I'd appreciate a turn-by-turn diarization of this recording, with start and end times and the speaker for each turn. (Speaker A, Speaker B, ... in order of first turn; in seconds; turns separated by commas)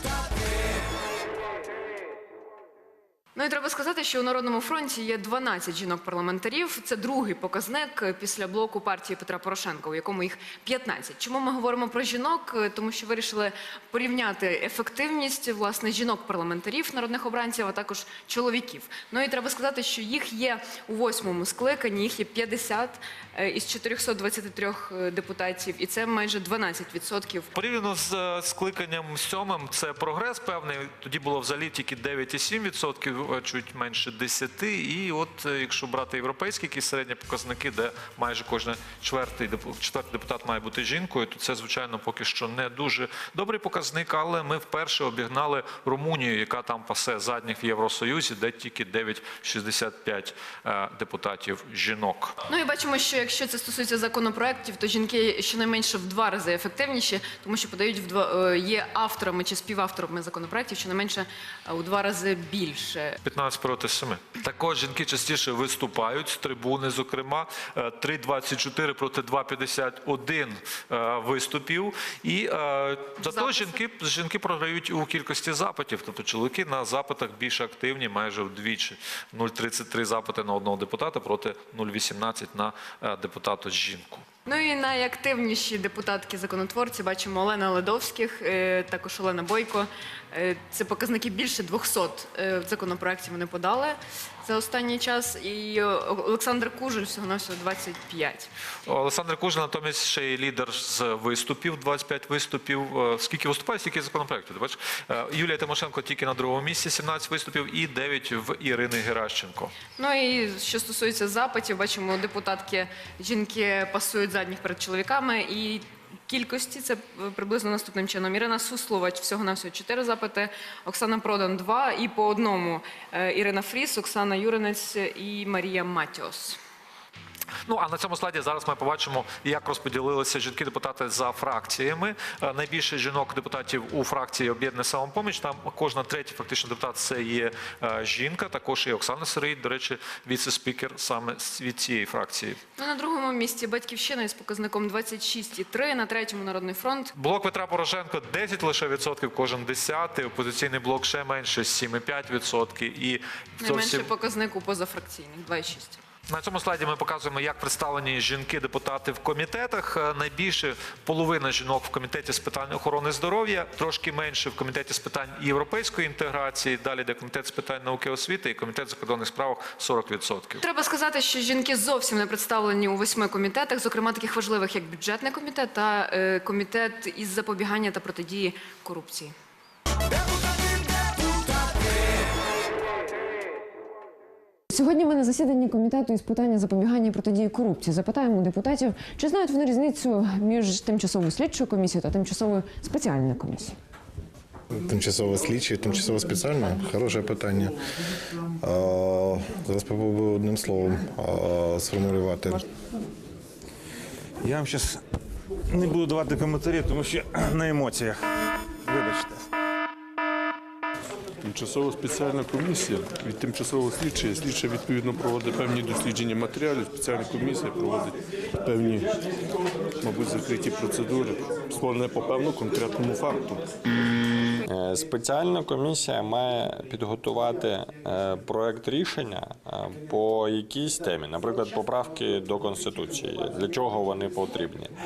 Speaker A: 3.4-27.5, Speaker B: 27.5-52.4, Speaker A: 52.5-63.2, Speaker B: 63.2-84.3, Speaker A: 73.2-73.8, Speaker A: 84.5-98.5, Speaker B: 98.9-109.7, Speaker A: 110.0-126.6, Speaker B: 127.7-142.6, Speaker A: 142.8-147.1, Speaker B: 147.2-154.1, Speaker A: 153.6-156.0, Speaker B: 156.3-170.6, Speaker A: 170.6-179.3, Speaker C: 184.7-193.8, Speaker D: 194.7-197.8, Speaker D: 198.6-202.6, Speaker E: 204.4-205.0, Speaker E: 205.7-208.2, Speaker E: 208.8-209.4, Speaker F: 211.4-219.2, Speaker F: 220.0-223.7, Speaker G: 224.7-234.9